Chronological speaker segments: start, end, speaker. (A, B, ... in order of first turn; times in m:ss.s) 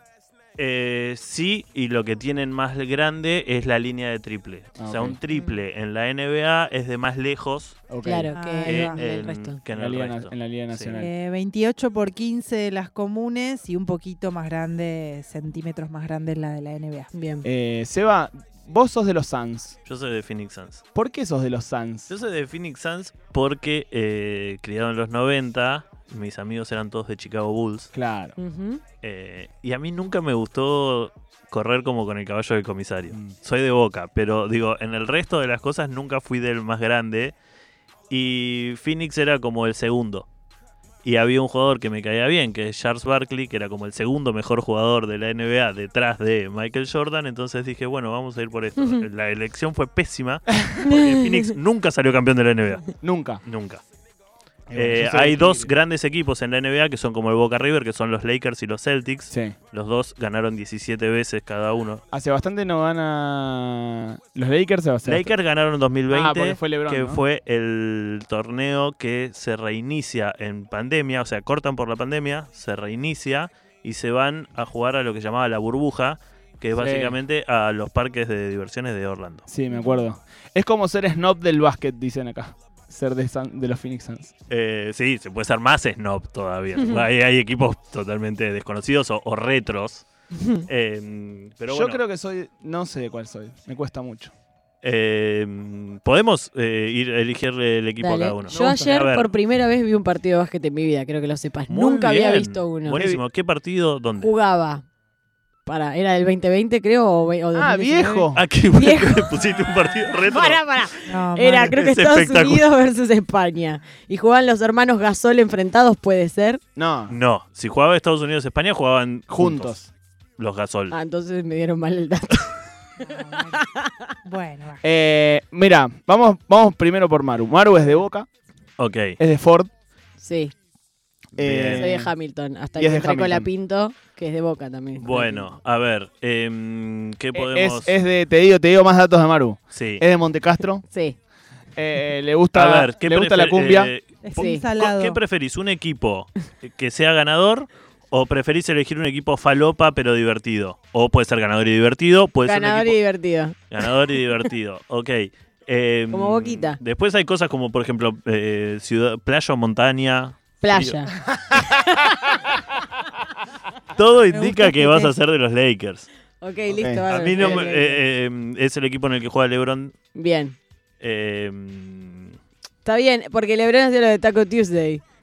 0:00.6-0:07.8 A
0:04.8-0:05.2 B
0:05.3-0:05.6 C
0:07.9-0:08.3 B
0:08.0-0:09.6 C
0:08.3-0:09.1 D
0:08.6-0:11.0 A
0:09.7-0:11.1 B
0:10.9-0:17.1 D
0:17.1-0:17.5 C
0:17.4-0:19.8 B
0:19.8-0:20.8 A
0:21.0-0:22.1 B
0:22.1-0:27.9 A
0:27.9-0:28.4 B
0:28.4-0:28.8 C
0:29.0-0:37.4 A
0:38.1-0:40.3 A
0:41.0-0:52.9 A
0:50.8-0:51.4 C
0:53.0-0:53.4 B
0:53.4-0:53.8 A
0:54.7-0:55.7 B
0:54.8-1:02.0 A
0:59.3-0:59.6 B
1:02.1-1:05.3 B
1:05.0-1:19.5 A
1:06.1-1:07.2 B
1:16.7-1:17.2 B
1:19.5-1:24.3 B
1:24.5-1:30.0 A
1:26.8-1:27.0 C
1:30.4-1:30.6 C
1:30.7-1:32.0 A
1:31.7-1:34.3 B
1:34.8-1:39.3 A
1:38.0-1:43.0 C
1:38.5-1:39.0 B
1:41.7-1:44.3 A
1:44.2-1:44.8 C
1:45.7-1:49.5 C
1:47.6-1:48.4 B
1:48.3-1:50.6 A
1:50.2-1:56.6 C
1:51.0-1:51.8 D
1:51.6-1:52.7 A
1:56.8-1:57.2 B
1:57.1-1:59.8 A
1:59.3-1:59.9 B
2:00.4-2:01.0 A
2:00.9-2:02.6 C
2:03.0-2:03.6 D
2:03.5-2:04.0 C
2:04.2-2:04.8 D
2:04.8-2:08.3 B
2:08.8-2:09.2 A
2:09.2-2:09.7 B
2:10.2-2:10.5 C
2:11.4-2:12.1 A
2:11.4-2:12.1 B
2:11.7-2:15.5 C
2:12.8-2:13.5 B
2:15.0-2:18.0 A
2:17.3-2:20.8 B
2:19.7-2:20.0 A
2:20.9-2:21.2 C
2:21.8-2:23.9 B
2:22.5-2:33.0 A
2:24.2-2:25.2 D
2:24.4-2:24.7 C
2:32.4-2:33.9 C
2:33.7-2:41.6 A
2:36.1-2:36.8 C
2:40.6-2:42.3 C
2:44.0-2:46.1 A
2:44.3-2:45.1 D
2:46.4-2:48.0 C
2:46.7-2:47.0 B
2:47.1-2:49.9 A
2:50.2-2:50.6 C
2:51.0-2:52.4 A
2:52.8-2:55.0 C